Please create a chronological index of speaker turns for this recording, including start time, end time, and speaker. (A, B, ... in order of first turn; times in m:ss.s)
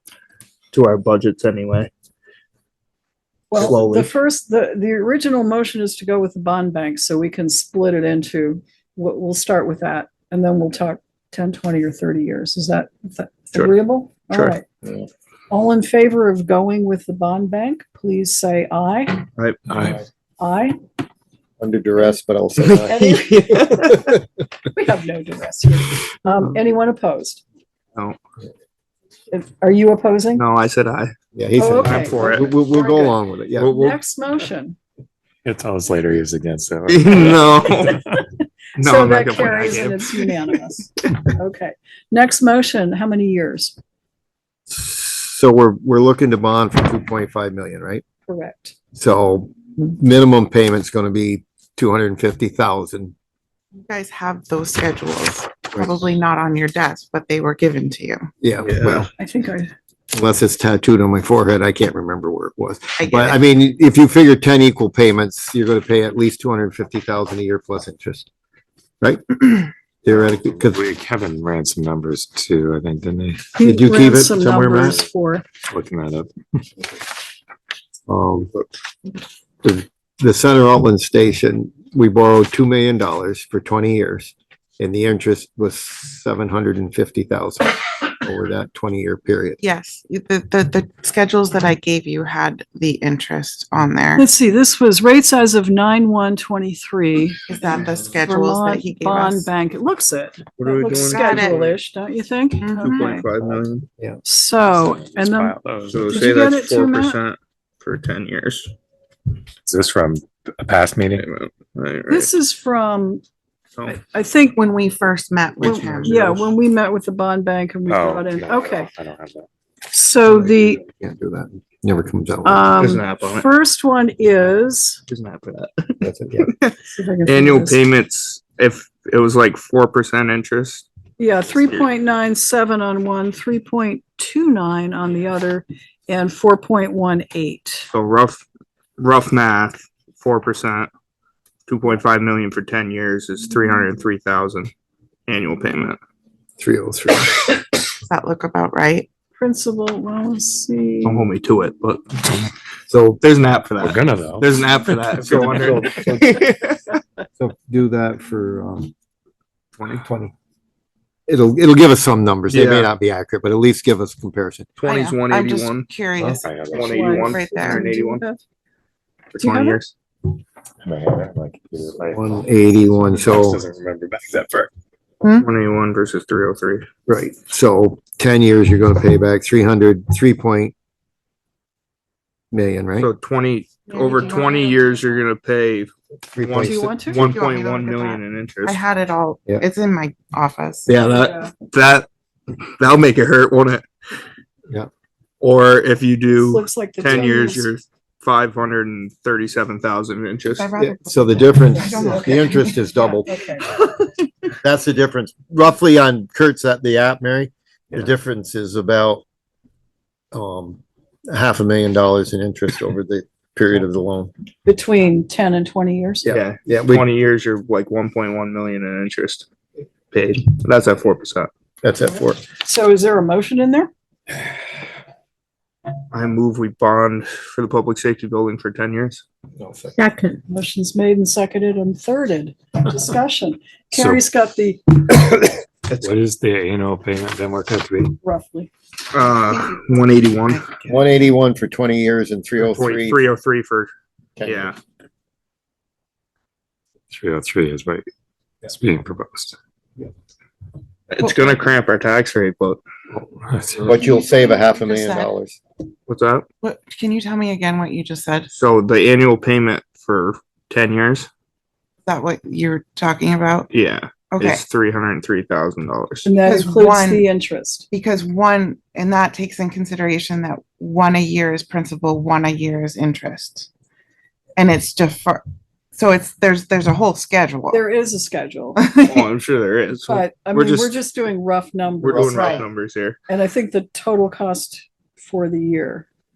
0:00.7-0:01.9 A
0:03.5-0:14.6 B
0:03.6-0:04.1 A
0:14.3-0:14.6 A
0:15.5-0:19.3 B
0:19.7-0:20.0 C
0:20.4-0:20.8 B
0:21.6-0:24.2 D
0:22.6-0:24.1 A
0:22.9-0:23.3 B
0:24.7-0:27.4 B
0:29.3-0:30.4 B
0:30.4-0:31.1 A
0:31.4-0:33.7 D
0:31.6-0:34.8 B
0:31.8-0:32.5 A
0:33.6-0:34.0 A
0:35.4-0:38.2 C
0:36.9-0:38.0 A
0:38.8-0:40.1 A
0:38.8-0:43.8 B
0:44.7-0:48.0 D
0:48.3-0:48.8 B
0:49.0-0:53.1 D
0:53.9-0:58.3 E
0:58.4-0:59.1 D
0:58.6-0:59.1 A
0:59.2-0:59.7 B
1:00.1-1:08.3 D
1:03.0-1:03.4 E
1:09.0-1:10.8 D
1:10.1-1:13.5 C
1:13.6-1:15.4 B
1:13.6-1:15.0 D
1:15.7-1:16.6 C
1:18.1-1:18.5 D
1:19.6-1:29.6 D
1:29.6-1:34.2 E
1:34.2-1:37.4 B
1:37.5-1:39.5 E
1:38.2-1:43.3 B
1:40.6-1:41.8 A
1:41.1-1:41.6 E
1:42.6-1:43.2 E
1:42.8-1:43.9 A
1:43.5-1:44.2 D
1:44.2-1:47.2 B
1:44.7-1:46.2 C
1:45.9-1:48.7 A
1:49.6-1:51.3 C
1:51.1-1:52.3 A
1:52.1-1:53.2 B
1:53.9-1:54.6 B
1:54.6-1:56.2 E
1:55.6-1:56.5 A
1:55.6-1:58.9 B
1:57.9-1:59.5 C
1:59.9-2:00.8 B
2:00.3-2:00.8 A
2:01.0-2:02.7 D
2:02.4-2:05.0 B
2:02.8-2:03.5 A
2:05.1-2:10.9 A
2:06.0-2:06.5 D
2:06.9-2:07.8 B
2:11.2-2:17.9 B
2:17.9-2:18.4 A
2:19.0-2:20.9 A
2:21.7-2:24.7 A
2:25.3-2:26.0 A
2:26.6-2:27.6 D
2:28.0-2:29.1 E
2:29.4-2:31.3 B
2:31.0-2:32.5 A
2:32.9-2:33.2 D
2:33.2-2:36.8 A
2:33.8-2:34.8 C
2:35.2-2:36.5 D
2:35.3-2:36.0 C
2:37.4-2:38.9 D
2:39.8-2:40.1 A
2:39.9-2:40.3 D
2:41.3-2:44.7 D
2:42.5-2:42.9 A
2:44.8-2:45.9 A
2:44.8-2:47.9 E
2:46.2-2:46.4 D
2:46.4-2:47.3 C
2:46.7-2:48.2 A
2:46.8-2:48.4 B
2:49.3-2:49.9 A
2:49.4-2:49.8 B
2:50.8-2:54.7 C
2:52.1-2:53.6 D
2:55.2-2:55.5 E
2:55.4-2:56.9 A
2:57.1-3:00.7 D
3:02.5-3:03.1 D
3:03.0-3:08.8 A
3:03.9-3:05.2 E
3:06.3-3:07.0 D
3:06.6-3:07.3 B
3:07.2-3:10.9 E
3:10.9-3:11.3 D
3:11.1-3:12.1 A
3:11.2-3:11.5 B
3:12.8-3:13.8 A
3:15.4-3:20.7 A
3:16.4-3:17.7 B
3:20.6-3:22.7 E
3:20.8-3:23.5 D
3:23.3-3:23.9 B
3:23.3-3:23.6 E
3:24.6-3:29.2 D
3:30.3-3:34.3 D
3:34.7-3:36.4 B
3:36.2-3:37.1 D
3:36.3-3:39.5 A
3:40.1-3:41.5 A
3:41.8-3:42.4 D
3:42.6-3:43.9 B
3:46.1-3:49.2 A
3:49.6-3:50.0 D
3:50.5-3:55.0 B
3:56.0-3:58.2 C
3:58.2-3:58.7 B
3:59.1-4:00.7 A
3:59.5-4:01.0 E
4:00.9-4:03.2 D
4:02.6-4:03.9 A
4:04.4-4:04.8 D
4:04.4-4:04.8 A
4:07.1-4:08.1 C
4:08.6-4:09.6 C
4:11.1-4:12.8 A
4:11.2-4:11.5 E
4:13.5-4:14.0 C
4:13.8-4:15.6 D
4:13.9-4:15.3 E
4:16.1-4:16.5 A
4:16.6-4:18.5 E
4:18.5-4:21.3 A
4:22.1-4:23.7 E
4:23.7-4:26.3 A
4:24.3-4:24.6 E
4:26.2-4:27.9 B
4:26.4-4:27.3 E
4:27.9-4:33.7 E
4:34.6-4:35.4 E
4:35.9-4:37.8 E
4:37.7-4:38.8 B
4:38.8-4:39.3 E
4:39.1-4:41.0 A
4:40.1-4:42.6 B
4:42.0-4:43.2 A
4:42.1-4:42.7 D
4:43.3-4:46.1 B